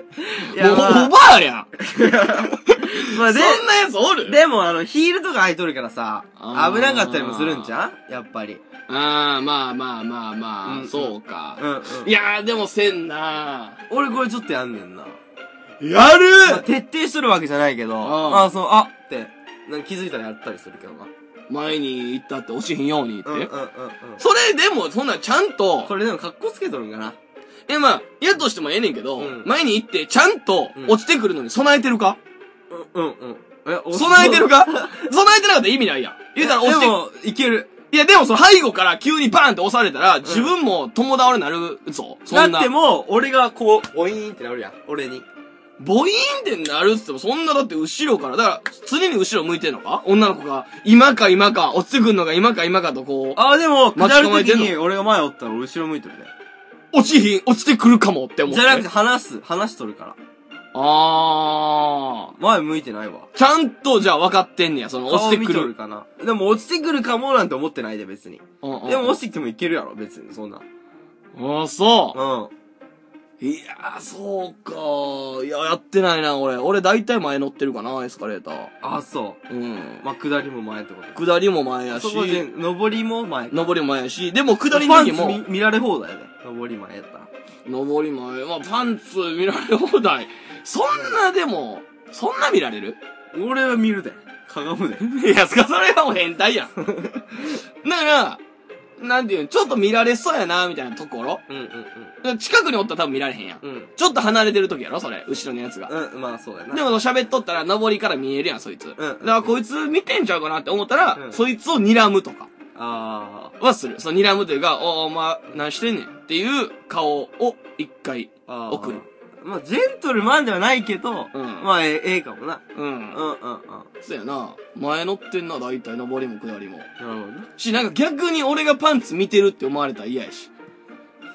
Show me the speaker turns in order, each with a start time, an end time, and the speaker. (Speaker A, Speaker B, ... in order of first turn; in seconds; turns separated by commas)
Speaker A: 0.2-1.1, Speaker B: 0.3-4.4, Speaker A: 1.9-3.6, Speaker A: 4.3-8.6, Speaker B: 6.4-7.8, Speaker B: 8.9-13.8, Speaker A: 10.6-12.1, Speaker A: 13.9-15.2, Speaker B: 15.8-16.6, Speaker A: 16.4-21.1, Speaker B: 18.0-18.5, Speaker B: 21.5-23.5, Speaker A: 23.3-24.2, Speaker B: 24.2-25.9, Speaker A: 25.8-27.2, Speaker B: 27.7-32.2, Speaker A: 29.2-29.5, Speaker A: 32.7-35.0, Speaker B: 33.9-37.0, Speaker A: 36.4-37.7, Speaker B: 37.9-42.7, Speaker A: 40.2-40.5, Speaker A: 42.3-45.3, Speaker B: 45.8-53.4, Speaker A: 53.4-56.3, Speaker B: 54.0-54.8, Speaker B: 56.9-58.9, Speaker A: 58.5-60.2, Speaker B: 60.7-62.3, Speaker A: 62.4-63.3, Speaker B: 63.4-65.7, Speaker A: 65.1-70.6, Speaker B: 68.6-69.2, Speaker B: 71.3-72.2, Speaker A: 72.1-72.5, Speaker B: 73.4-78.7, Speaker A: 78.8-79.4, Speaker B: 79.5-80.0, Speaker A: 80.0-81.2, Speaker B: 81.1-82.5, Speaker A: 81.9-83.7, Speaker B: 83.5-85.4, Speaker A: 84.7-87.3, Speaker B: 87.7-93.0, Speaker A: 90.9-91.2, Speaker A: 93.3-95.2, Speaker B: 95.1-98.4, Speaker A: 96.8-97.1, Speaker B: 99.0-101.4, Speaker A: 101.5-102.1, Speaker B: 102.2-105.9, Speaker A: 103.6-103.9, Speaker A: 105.9-106.8, Speaker B: 106.7-112.5, Speaker A: 109.0-109.5, Speaker A: 111.1-111.4, Speaker A: 112.7-113.5, Speaker B: 113.6-119.0, Speaker A: 118.5-123.9, Speaker B: 121.3-121.7, Speaker B: 122.7-123.2, Speaker B: 124.0-126.9, Speaker A: 127.0-127.5, Speaker B: 127.6-130.5